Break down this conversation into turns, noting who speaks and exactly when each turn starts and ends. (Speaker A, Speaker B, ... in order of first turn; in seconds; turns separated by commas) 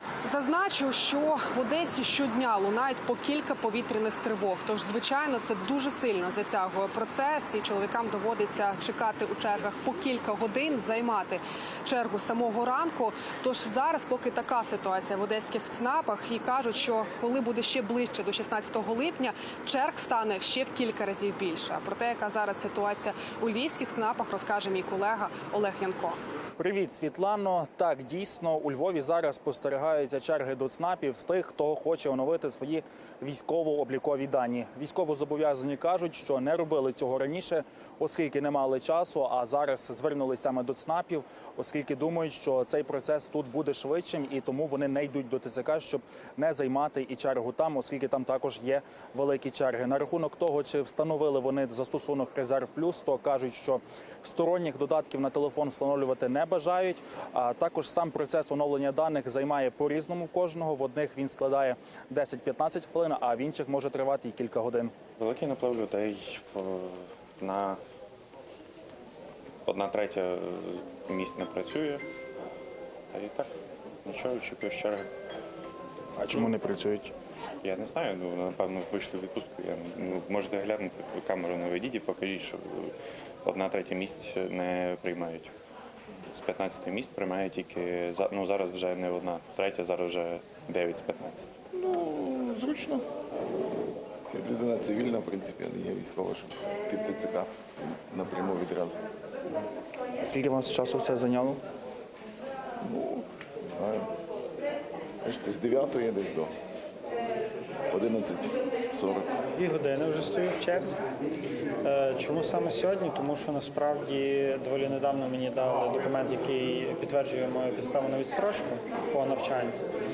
Speaker A: 0.2-26.2, Speaker B: 26.6-64.9, Speaker C: 65.2-67.8, Speaker C: 69.6-72.0, Speaker C: 73.1-73.5, Speaker C: 74.0-75.1, Speaker B: 76.2-77.1, Speaker C: 77.6-82.9, Speaker C: 83.4-85.5, Speaker C: 86.3-91.5, Speaker D: 91.7-93.0, Speaker D: 94.3-99.0, Speaker B: 100.3-101.6, Speaker D: 102.8-103.2, Speaker D: 103.8-104.1, Speaker D: 105.2-106.5, Speaker D: 107.9-109.3, Speaker E: 109.6-111.0, Speaker E: 111.8-119.7